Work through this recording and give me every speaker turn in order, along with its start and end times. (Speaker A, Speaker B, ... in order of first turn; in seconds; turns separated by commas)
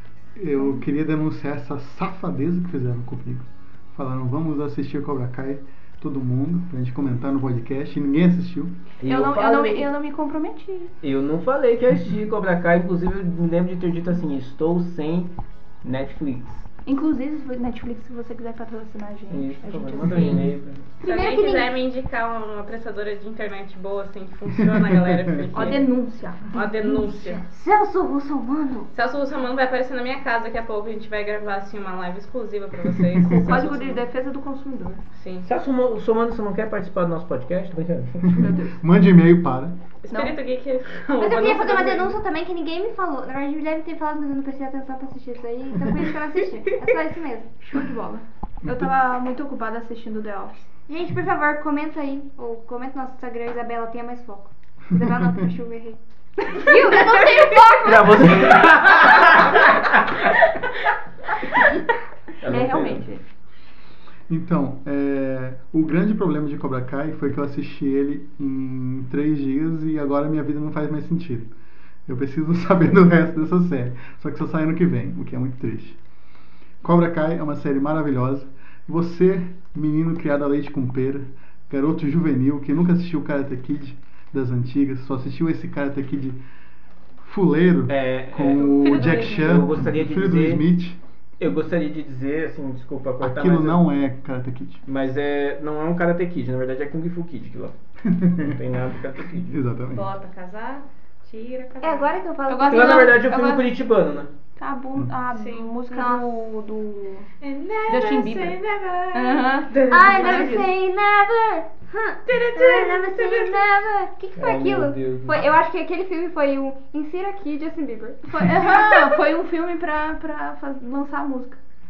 Speaker A: 0.3-8.7, Speaker B: 0.6-0.8, Speaker C: 9.0-9.9, Speaker B: 9.0-10.9, Speaker C: 11.0-16.7, Speaker B: 16.9-20.5, Speaker C: 19.3-20.9, Speaker D: 21.0-25.9, Speaker E: 21.0-21.8, Speaker A: 24.8-25.4, Speaker B: 25.5-26.7, Speaker D: 26.5-27.4, Speaker E: 26.8-28.9, Speaker D: 28.9-34.0, Speaker A: 33.2-33.5, Speaker B: 33.4-35.0, Speaker D: 35.1-35.5, Speaker C: 35.4-38.5, Speaker A: 38.3-39.8, Speaker B: 38.3-38.8, Speaker D: 40.0-42.2, Speaker B: 40.1-40.4, Speaker E: 41.1-47.5, Speaker B: 47.6-50.6, Speaker E: 50.9-58.5, Speaker C: 57.8-60.0, Speaker C: 62.4-63.0, Speaker B: 62.4-63.2, Speaker A: 64.3-71.5, Speaker A: 72.1-76.0, Speaker A: 76.8-86.4, Speaker A: 87.2-91.0, Speaker C: 87.9-90.6, Speaker D: 88.7-89.4, Speaker C: 91.4-93.8, Speaker A: 93.2-94.8, Speaker C: 94.8-97.8, Speaker A: 98.0-98.5, Speaker C: 98.4-99.5, Speaker A: 99.5-100.1, Speaker D: 99.9-102.8, Speaker E: 101.8-103.2, Speaker B: 102.5-103.6, Speaker C: 102.7-104.3, Speaker B: 104.6-107.3, Speaker D: 105.3-105.8, Speaker E: 105.9-106.3, Speaker D: 107.4-110.7, Speaker B: 107.9-108.6, Speaker B: 109.1-110.7, Speaker E: 109.9-119.2, Speaker D: 112.2-113.6, Speaker C: 114.3-115.5, Speaker B: 118.3-121.6